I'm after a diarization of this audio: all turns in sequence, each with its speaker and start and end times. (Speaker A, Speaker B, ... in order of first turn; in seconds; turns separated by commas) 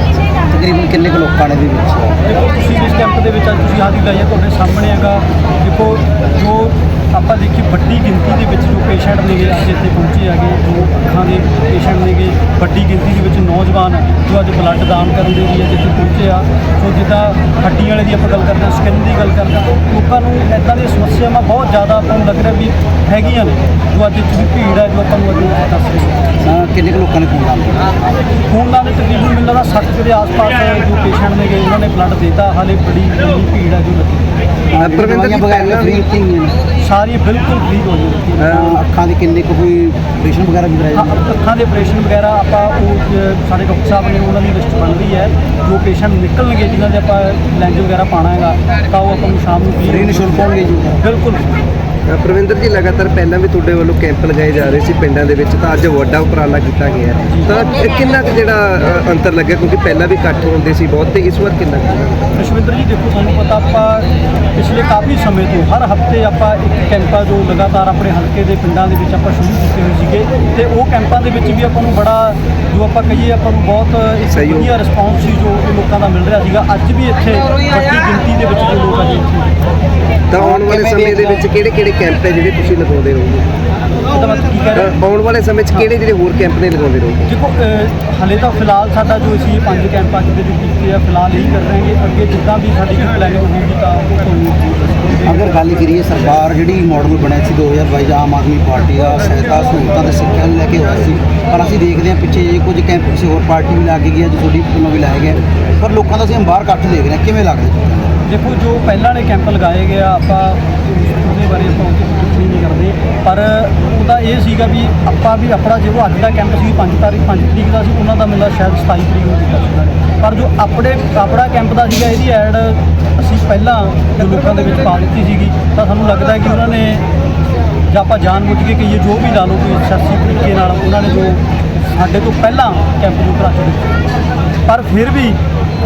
Speaker A: 0.5-2.2, Speaker B: 2.2-26.3, Speaker A: 26.4-28.1, Speaker B: 28.5-34.3, Speaker A: 34.7-36.6, Speaker C: 34.8-36.0, Speaker B: 36.8-38.8, Speaker C: 38.4-38.7, Speaker A: 38.5-41.2, Speaker B: 40.9-51.5, Speaker A: 49.9-51.0, Speaker C: 52.1-62.3, Speaker B: 62.3-79.5, Speaker C: 74.3-74.7, Speaker C: 80.3-83.5, Speaker A: 80.3-81.4, Speaker B: 84.0-85.0, Speaker C: 84.8-87.3, Speaker B: 87.3-95.4, Speaker A: 95.2-108.2, Speaker B: 108.2-127.0, Speaker B: 127.9-134.0, Speaker B: 134.6-135.4